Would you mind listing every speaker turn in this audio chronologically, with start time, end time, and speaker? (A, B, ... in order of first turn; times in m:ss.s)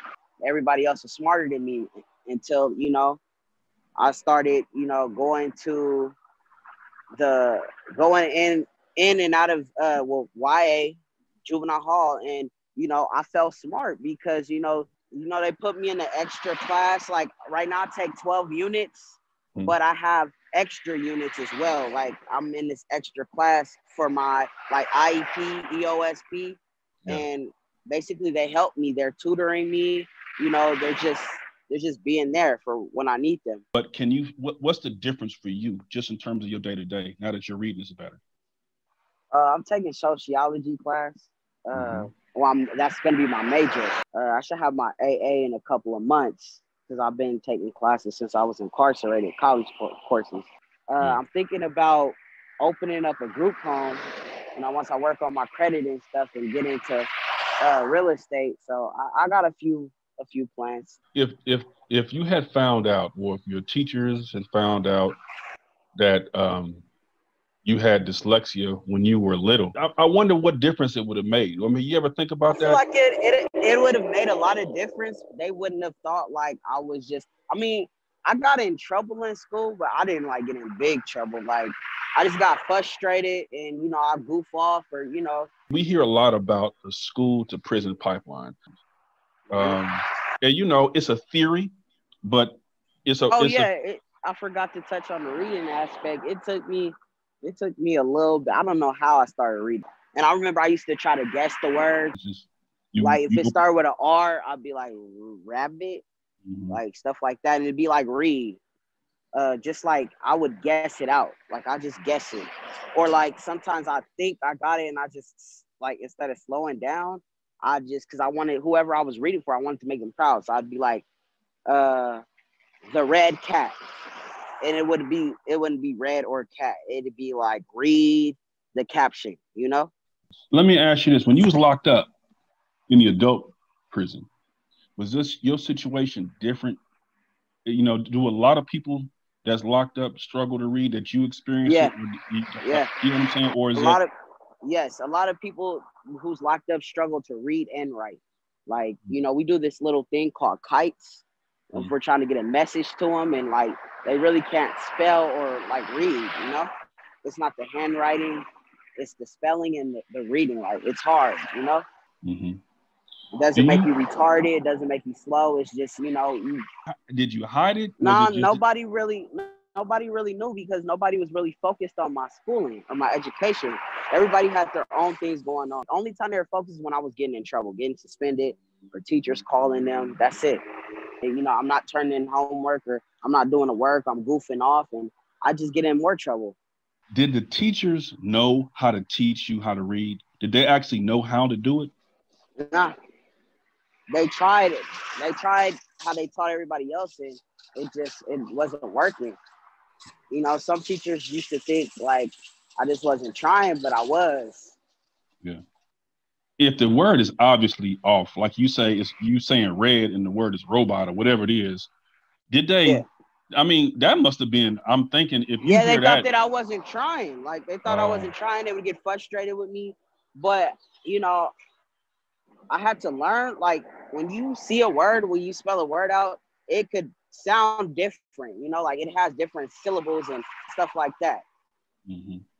0:00.4-0:03.2 A
0:04.0-0:06.2 A
0:07.1-0:33.6 A
0:33.7-0:38.2 B
0:39.3-0:54.0 A
0:41.7-0:42.1 B
0:54.6-0:57.1 A
0:57.6-1:01.0 A
1:01.1-1:05.2 B
1:05.9-1:06.8 B
1:07.6-1:12.8 B
1:12.5-1:25.5 A
1:25.7-1:28.6 B
1:29.5-1:29.8 A
1:29.5-1:31.7 B
1:32.2-1:33.7 B
1:33.3-1:42.1 A
1:42.1-1:43.5 B
1:43.0-1:46.0 A
1:46.4-1:46.8 B
1:46.7-1:48.6 A
1:49.3-2:01.0 A
2:01.7-2:02.2 A
2:02.9-2:03.7 A
2:04.6-2:09.9 A
2:10.5-2:12.1 B
2:12.9-2:14.3 B
2:15.0-2:16.8 B
2:17.6-2:24.0 B
2:21.6-2:21.9 A
2:22.6-2:22.9 A
2:23.7-2:24.1 A
2:24.6-2:36.7 A
2:37.2-2:38.4 A
2:39.0-2:41.8 A
2:42.2-2:42.6 B
2:43.3-2:46.6 A
2:43.6-2:43.9 B
2:47.1-2:48.6 B
2:48.0-3:00.6 A
3:01.2-3:06.6 A
3:07.1-3:11.9 B
3:12.6-3:12.9 A
3:14.1-3:19.4 A
3:20.3-3:24.8 A
3:26.6-3:31.9 B
3:32.5-3:36.3 B
3:35.6-3:41.5 A
3:37.8-3:38.3 B
3:42.7-3:51.4 A
3:52.1-3:52.4 B